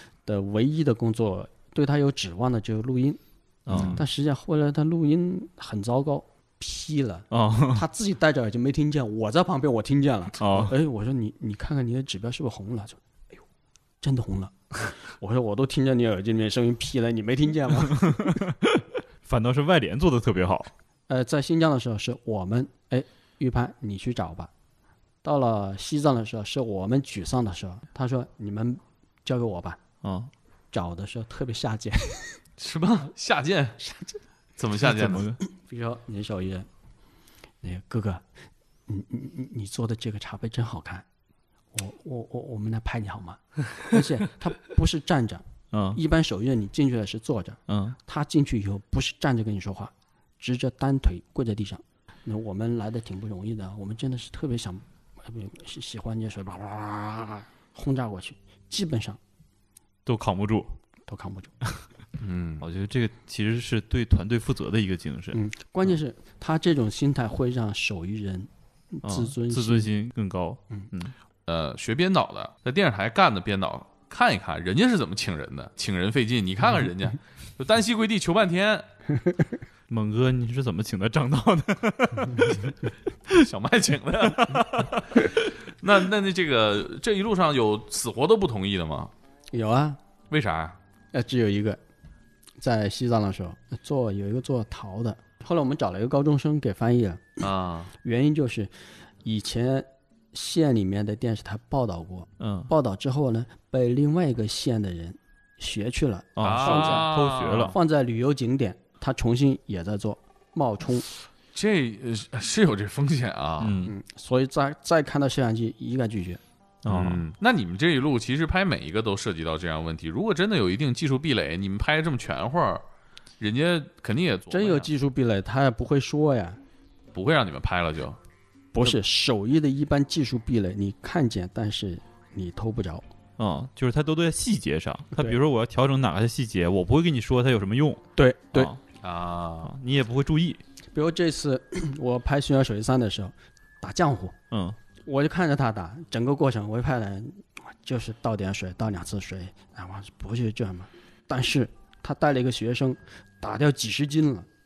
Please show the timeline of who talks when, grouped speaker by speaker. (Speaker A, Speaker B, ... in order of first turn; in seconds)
Speaker A: 0.2-3.2, 3.7-13.0, 14.0-18.4, 21.1-24.5, 25.2-29.8, 30.7-32.4, 35.5-36.7, 37.6-38.2, 38.9-41.0, 41.7-59.2, 61.1-61.5, 65.3-69.9, 89.5-90.0, 91.1-91.8, 92.6-97.2, 98.0-107.1, 107.7-111.1, 113.8-116.4, 124.5-126.6, 128.7-133.1, 138.2-138.7, 140.9-144.3, 145.1-154.5
Speaker B: 3.7-4.0, 7.3-7.8, 10.4-10.7, 17.9-20.7, 30.0-30.3, 34.8-35.4, 45.7-46.0, 47.7-48.0, 60.0-60.8, 62.6-65.4, 69.0-71.1, 79.9-82.6, 84.4-84.9, 102.4-102.7, 106.4-107.8, 113.6-113.9, 116.8-117.2, 133.4-138.8, 139.6-140.6, 144.5-144.8
Speaker C: 32.6-33.8, 34.6-35.3, 62.2-62.6, 71.5-78.9, 83.3-89.1, 90.3-90.8, 97.4-97.9, 106.4-107.7, 111.5-113.8, 116.9-122.8, 123.4-124.9, 127.1-128.2, 139.0-139.7